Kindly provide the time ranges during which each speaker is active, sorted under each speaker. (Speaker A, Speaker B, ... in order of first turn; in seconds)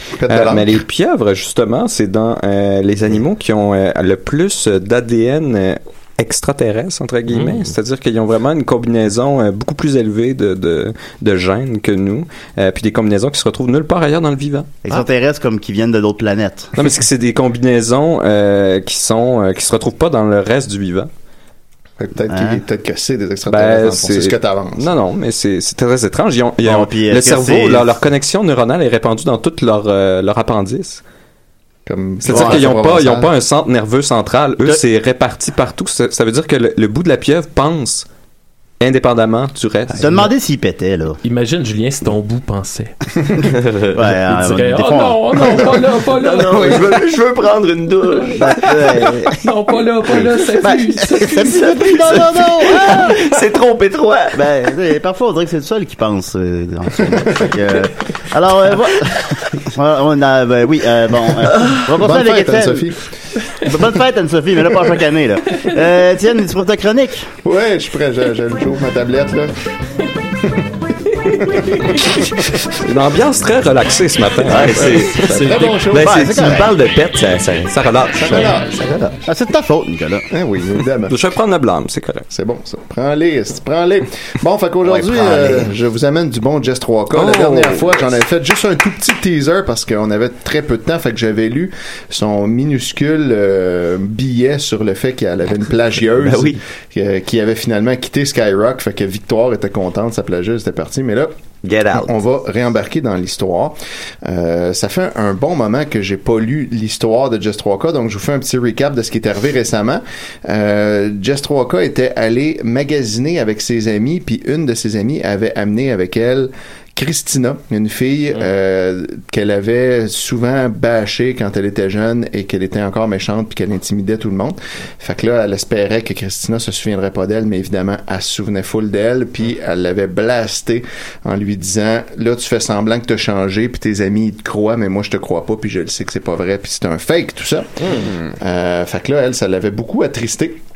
Speaker A: 0.2-0.8, 22.0-24.9, 31.9-33.3, 61.9-63.1, 67.4-69.5, 71.4-71.9, 74.6-76.3, 78.2-78.7, 80.3-81.2, 82.3-101.3, 101.9-140.6
Speaker B: 0.3-14.7, 16.7-21.1, 23.5-31.0, 32.2-38.0, 38.8-40.3, 72.8-75.0, 77.7-78.5, 81.1-82.3, 87.1-87.9
Speaker C: 7.3-7.6, 41.2-42.9, 44.2-47.0, 49.3-51.8, 75.2-75.9
Speaker D: 14.8-16.7, 22.3-22.6, 26.6-27.9, 32.3-32.6, 40.0-41.2, 43.4-45.7, 48.3-49.4, 50.6-53.2, 54.4-62.9, 63.6-67.3, 76.0-76.7, 79.2-80.3, 84.8-85.7
Speaker E: 46.2-48.9, 51.4-54.6, 74.5-79.2, 96.2-96.6, 101.6-102.1